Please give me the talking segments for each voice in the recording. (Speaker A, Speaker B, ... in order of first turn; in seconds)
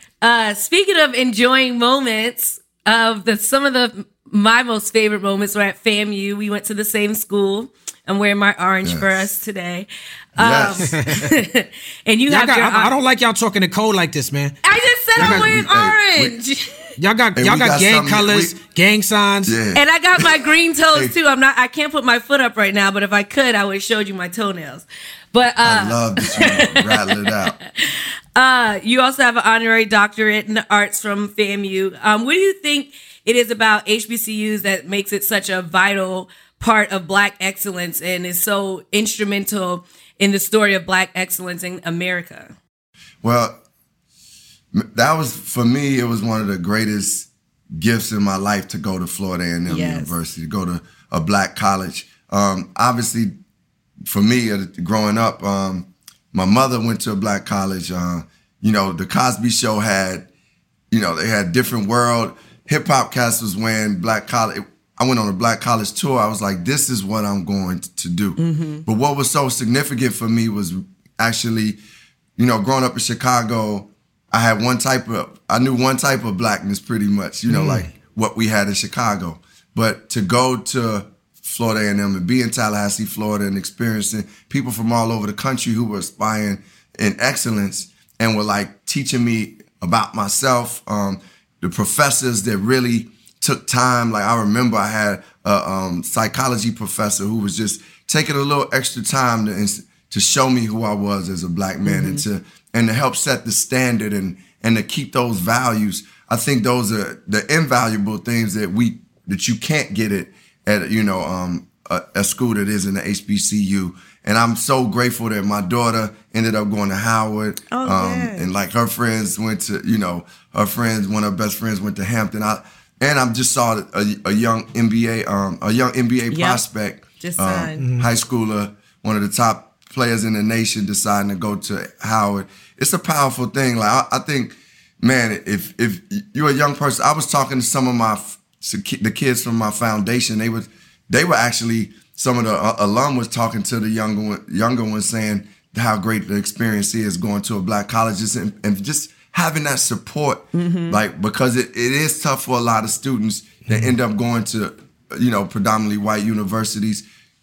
Speaker A: 0.2-12.9, 14.6-16.9, 19.7-42.5, 49.7-50.1, 68.4-68.8, 101.8-102.2, 117.7-118.5, 126.3-126.6, 127.2-127.9, 150.5-151.0
Speaker B: 8.8-9.1, 10.4-10.9, 15.2-16.4, 17.4-18.5, 19.4-21.1, 25.6-27.5, 43.2-43.6, 44.7-53.3, 54.0-60.3, 60.9-71.8, 72.4-157.0
Speaker C: 10.8-11.3, 12.3-14.6, 15.2-15.6, 17.0-19.6, 77.5-77.9, 127.8-128.1, 153.7-153.9